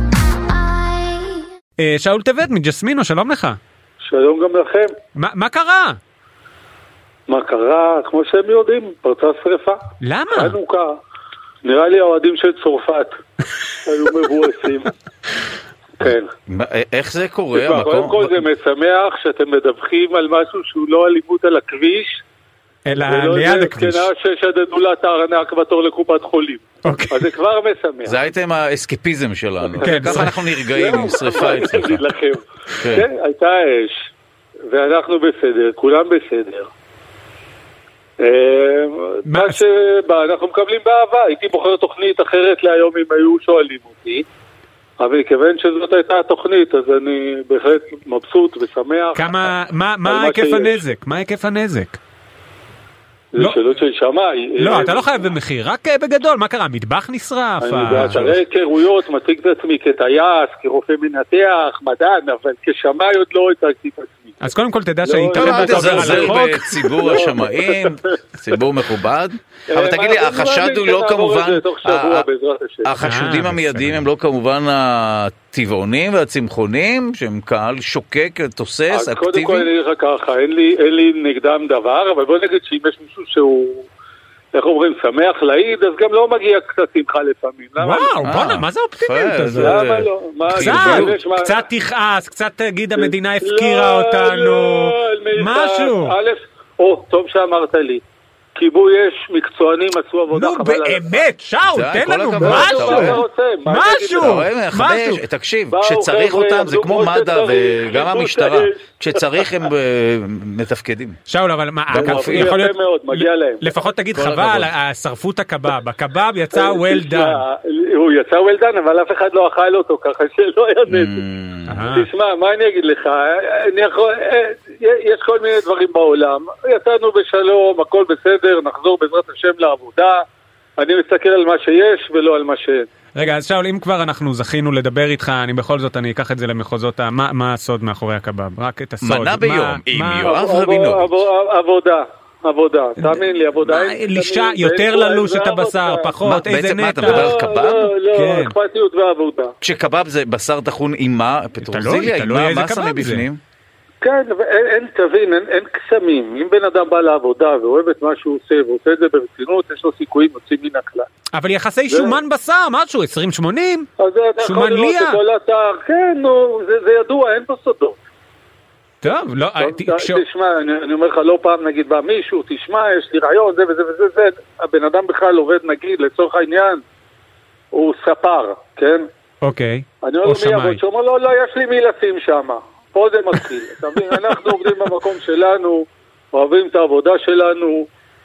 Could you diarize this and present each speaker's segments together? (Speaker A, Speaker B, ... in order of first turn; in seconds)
Speaker A: 1.8-3.6, 5.2-6.0, 10.0-10.6, 22.9-24.1, 26.8-27.3, 29.8-30.4, 39.3-39.6, 49.2-52.0, 54.6-58.3, 64.4-67.2, 73.0-74.1, 87.8-89.8, 90.5-96.1, 100.3-105.2, 111.3-117.4, 121.7-122.1, 133.2-140.3, 143.0-147.3, 148.1-148.5, 151.6-153.2, 161.3-163.9, 164.4-165.2, 169.0-170.2, 179.4-180.8
Speaker B: 4.0-5.0, 7.3-9.8, 10.3-11.0, 11.6-14.9, 16.0-16.3, 17.5-22.2, 23.1-28.2, 29.8-34.1, 34.7-36.7, 38.2-44.2, 45.0-49.5, 50.0-50.8, 53.3-55.3, 57.6-64.4, 65.0-68.2, 69.7-73.0, 78.9-83.9, 84.5-88.2, 89.5-91.7, 93.0-98.0, 98.5-101.2, 102.4-104.4, 105.7-109.4, 111.9-113.7, 116.5-121.2, 121.9-130.2, 130.8-132.9, 140.2-146.1, 147.0-149.5, 154.0-161.1, 161.9-162.2, 164.0-168.0, 169.6-176.8, 177.7-179.1, 180.0-187.9
Speaker C: 16.5-18.4, 28.1-32.0, 32.8-33.0, 65.3-72.3, 72.8-79.7, 88.2-91.2, 101.7-103.2, 104.2-111.2, 111.9-112.5, 114.1-114.7, 120.9-121.8, 139.0-141.2, 146.2-147.9, 149.6-153.4